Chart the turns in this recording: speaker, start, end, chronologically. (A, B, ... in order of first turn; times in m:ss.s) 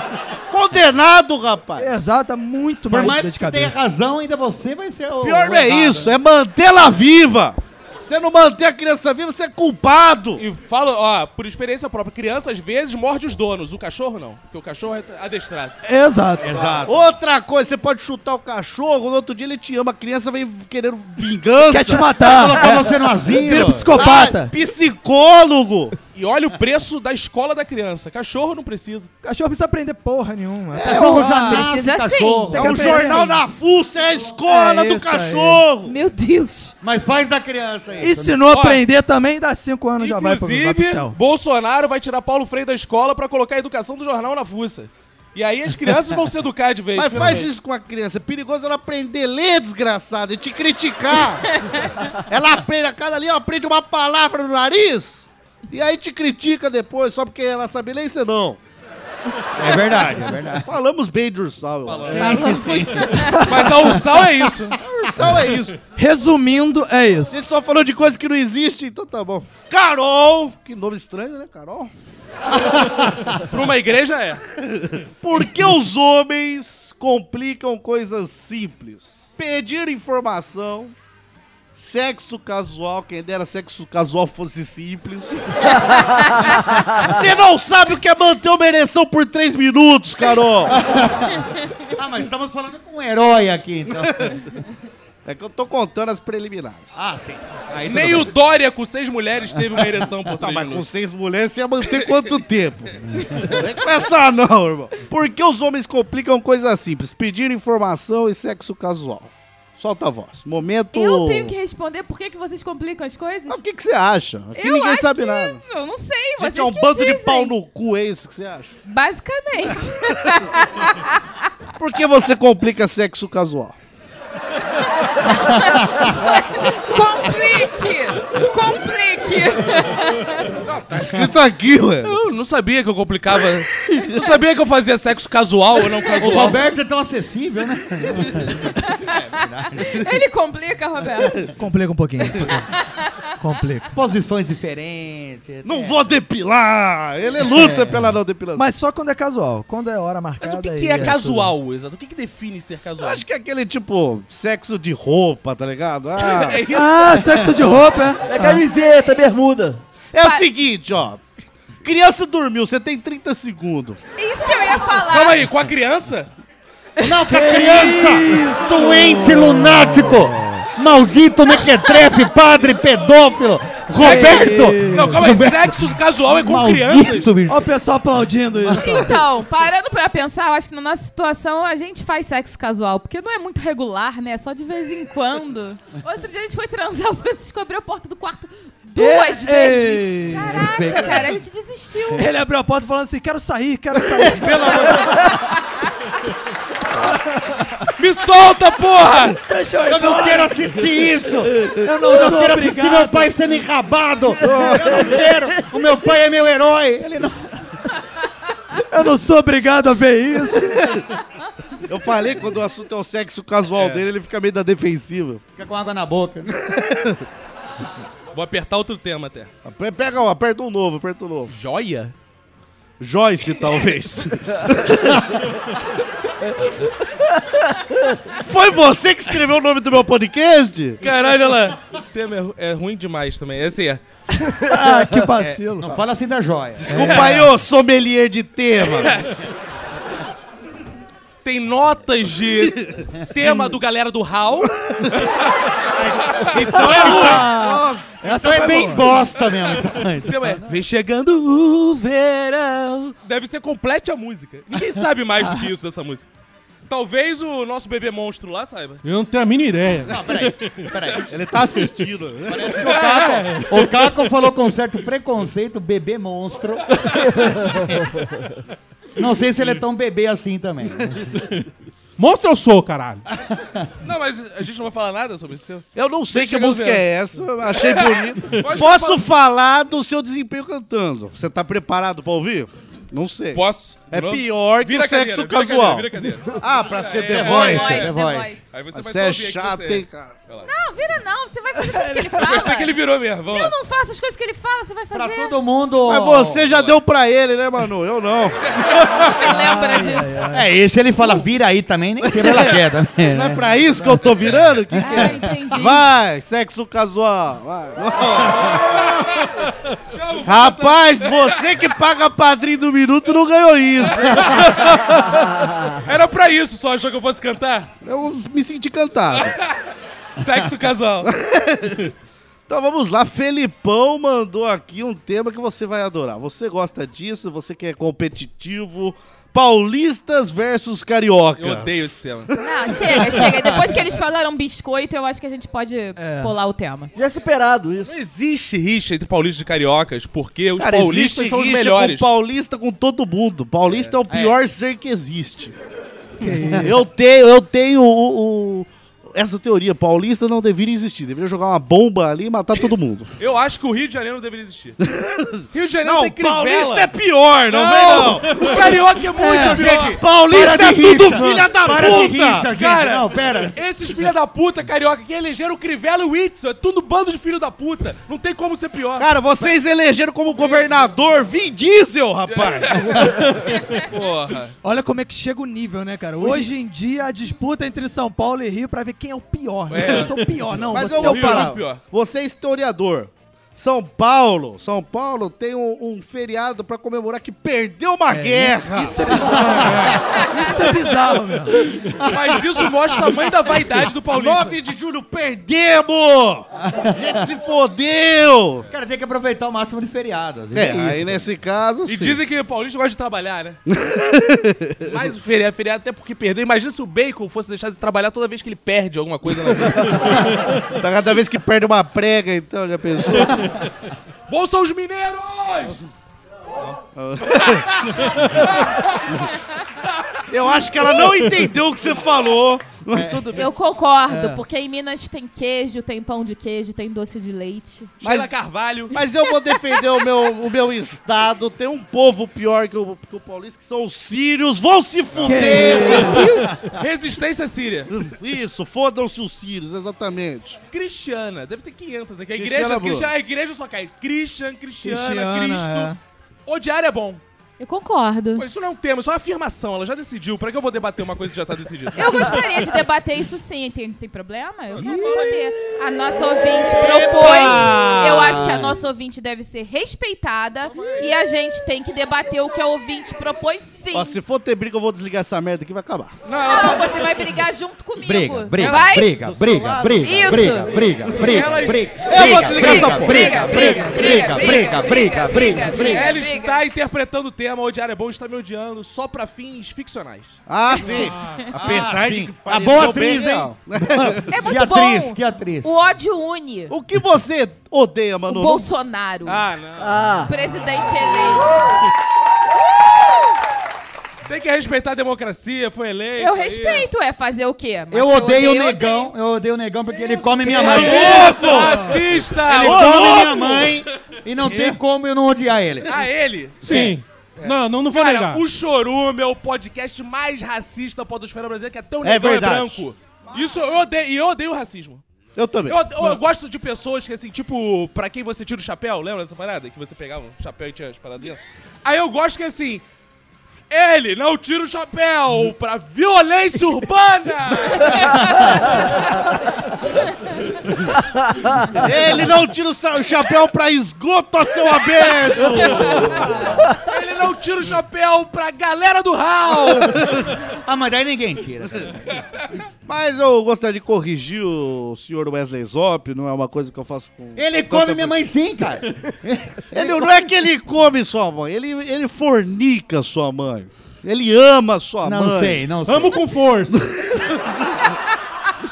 0:00.5-0:01.9 A
0:01.8-0:03.8 B
0:02.9-0:06.1 C
0:05.2-0:10.4 A
0:10.4-0:15.7 D
0:15.8-0:16.6 B
0:16.4-0:17.0 C
0:16.8-0:22.2 A
0:21.7-0:24.5 B
0:22.2-0:24.1 C
0:23.5-0:25.9 A
0:26.1-0:29.1 D
0:29.2-0:31.7 B
0:30.7-0:31.3 A
0:30.8-0:33.2 C
0:31.3-0:33.0 E
0:32.5-0:33.4 B
0:32.5-0:35.9 A
0:34.4-0:35.6 B
0:35.8-0:36.7 E
0:36.8-0:38.5 C
0:38.0-0:41.2 B
0:38.5-0:38.8 D
0:40.0-0:47.5 D
0:46.9-0:51.6 A
0:51.6-0:51.9 E
0:52.2-0:58.6 A
0:59.6-1:00.7 C
0:59.6-1:03.0 A
1:01.8-1:04.8 D
1:02.2-1:03.5 E
1:02.3-1:02.9 C
1:03.1-1:04.0 B
1:04.8-1:05.8 A
1:06.0-1:07.4 B
1:07.3-1:11.9 A
1:13.3-1:14.4 D
1:14.7-1:20.9 A
1:21.8-1:30.9 A
1:30.7-1:34.4 C
1:33.9-1:34.4 A
1:35.2-1:37.0 A
1:36.9-1:38.3 C
1:37.8-1:40.8 D
1:40.3-1:51.5 A
1:43.2-1:43.5 C
1:50.9-1:53.6 E
1:53.5-1:55.6 A
1:54.5-1:57.5 E
1:56.4-1:58.7 A
1:58.8-2:01.2 E
2:01.8-2:03.8 A
2:05.2-2:10.5 E
2:10.7-2:12.2 A
2:10.7-2:11.3 D
2:12.0-2:16.6 D
2:13.9-2:14.2 A
2:16.2-2:20.1 C
2:18.7-2:21.4 E
2:21.6-2:22.6 B
2:22.8-2:23.1 E
2:23.4-2:23.9 B
2:23.9-2:26.0 C
2:25.6-2:28.7 A
2:27.4-2:28.0 C
2:28.6-2:31.5 B
2:30.4-2:33.2 D
2:33.0-2:36.6 A
2:36.2-2:37.4 D
2:36.7-2:38.6 B
2:38.2-2:39.8 F
2:40.1-2:41.2 A
2:40.2-2:40.4 E
2:41.8-2:44.0 A
2:44.2-2:45.4 E
2:44.9-2:46.3 D
2:47.0-2:57.7 C
2:47.3-2:50.6 B
2:51.7-2:52.2 E
2:54.0-2:57.3 D
2:54.0-2:55.3 B
2:57.5-2:59.2 B
2:58.7-3:12.3 E
3:09.0-3:10.8 B
3:10.5-3:11.4 C
3:12.1-3:15.4 B
3:14.2-3:15.3 A
3:17.1-3:17.9 B
3:18.0-3:19.4 D
3:19.4-3:20.8 B
3:19.8-3:27.6 C
3:21.6-3:22.1 A
3:21.6-3:23.3 B
3:24.4-3:25.2 A
3:24.4-3:24.8 B
3:28.7-3:30.8 B
3:30.7-3:31.0 A
3:31.8-3:35.4 A
3:33.7-3:34.0 D
3:35.6-3:36.5 C
3:36.6-3:37.2 A
3:38.3-3:39.5 D
3:39.6-3:41.5 A
3:41.5-3:42.1 D
3:43.0-3:45.5 A
3:48.4-3:51.0 A
3:51.0-3:54.0 D
3:54.3-3:56.0 B
3:55.8-3:57.2 C
3:56.8-3:59.2 A
3:56.9-3:57.5 B
3:57.0-3:57.3 D
3:58.9-3:59.4 D
4:01.4-4:07.5 D
4:02.6-4:03.7 A
4:05.0-4:05.3 A
4:05.9-4:08.2 A
4:06.7-4:09.2 B
4:08.3-4:10.7 C
4:10.2-4:16.2 D
4:16.9-4:19.0 D
4:19.0-4:21.0 G
4:20.1-4:21.3 C
4:21.3-4:23.4 A
4:22.5-4:26.9 C
4:22.8-4:23.4 D
4:23.1-4:23.8 G
4:27.4-4:28.0 C
4:29.2-4:31.2 C
4:32.2-4:33.2 G
4:33.4-4:33.8 C
4:34.0-4:37.0 D
4:36.0-4:48.0 A
4:37.7-4:39.2 D
4:43.5-4:48.1 D
4:47.3-4:48.6 C
4:47.4-4:48.6 E
4:48.7-4:50.7 D
4:48.9-4:50.3 A
4:50.6-4:55.6 E
4:52.4-4:53.7 D
4:55.1-4:56.6 C
4:56.0-4:59.3 A
4:56.7-4:57.0 D
4:59.3-5:00.5 E
4:59.4-5:00.7 B
5:00.5-5:03.6 C
5:02.2-5:09.2 A
5:05.0-5:06.0 E
5:08.3-5:11.8 D
5:10.4-5:15.4 A
5:14.1-5:17.9 D
5:18.0-5:19.5 A
5:19.3-5:19.8 D
5:20.3-5:21.3 D
5:21.2-5:22.1 A
5:22.7-5:33.2 A
5:31.6-5:32.5 D
5:32.6-5:37.1 E
5:36.2-5:36.5 B
5:37.1-5:38.1 F
5:38.0-5:42.3 D
5:40.8-5:45.7 A
5:43.9-5:44.1 D
5:44.3-5:44.6 C
5:46.4-5:47.1 B
5:46.8-5:53.3 A
5:53.4-5:55.0 D
5:55.0-5:58.9 A
5:55.7-5:57.1 D
5:57.6-6:00.2 D
5:59.4-5:59.8 B
5:59.4-6:03.8 C
5:59.9-6:02.7 A
6:02.7-6:09.3 D
6:09.2-6:13.5 A
6:12.5-6:14.7 D
6:14.8-6:21.7 B
6:19.9-6:20.3 D
6:20.9-6:22.0 D
6:20.9-6:29.8 A
6:28.3-6:31.8 B
6:29.6-6:29.9 C
6:32.2-6:33.3 C
6:32.2-6:34.8 D
6:34.3-6:38.8 A
6:38.9-6:41.4 C
6:40.7-6:42.4 A
6:42.0-6:43.8 D
6:43.9-6:45.1 A
6:45.0-6:50.7 D
6:50.1-6:53.6 A
6:54.5-6:56.0 D
6:57.1-6:58.0 A
6:57.5-6:59.5 D
7:00.1-7:00.4 D
7:00.5-7:03.7 A
7:03.1-7:03.5 C
7:03.5-7:08.1 E
7:04.3-7:04.6 B
7:08.2-7:09.1 D
7:08.2-7:08.6 A
7:09.1-7:16.5 A
7:15.3-7:18.2 D
7:15.4-7:16.5 B
7:16.0-7:16.8 E
7:18.1-7:20.8 A
7:20.9-7:26.1 D
7:22.5-7:23.3 A
7:25.0-7:26.2 B
7:26.6-7:27.4 D
7:27.8-7:28.6 E
7:28.6-7:32.6 D
7:32.1-7:44.4 E
7:37.0-7:39.0 C
7:37.4-7:38.6 D
7:44.1-7:46.3 A
7:46.4-7:47.3 D
7:46.6-7:49.3 E
7:48.2-7:56.3 C
7:48.8-7:49.1 D
7:49.4-7:51.3 A
7:50.2-7:51.0 E
7:51.3-7:52.7 D
7:52.2-7:54.1 A
7:52.4-7:56.8 E
7:56.0-8:00.6 D
8:00.7-8:04.6 A
8:01.1-8:01.5 G
8:01.7-8:05.9 C
8:04.5-8:06.9 E
8:06.9-8:08.9 A
8:08.5-8:09.6 E
8:09.4-8:10.2 D
8:10.0-8:10.5 F
8:10.4-8:11.6 E
8:14.4-8:17.1 D
8:16.4-8:19.3 E
8:18.1-8:21.6 C
8:20.7-8:23.7 D
8:20.7-8:24.0 A
8:22.6-8:26.2 C
8:26.0-8:35.2 D
8:26.8-8:28.6 G
8:26.9-8:27.1 C
8:32.2-8:33.6 A
8:35.6-8:36.4 A
8:35.9-8:43.0 D
8:43.9-8:49.0 D
8:48.3-8:48.7 E
8:51.9-8:56.9 A
8:55.7-8:56.3 D
8:56.0-8:56.4 E
8:57.0-9:00.5 D
9:00.8-9:02.3 C
9:02.3-9:02.6 D
9:03.0-9:08.3 A
9:07.6-9:10.3 C
9:09.9-9:15.9 A
9:15.2-9:16.4 C
9:16.0-9:17.1 G
9:16.9-9:17.9 A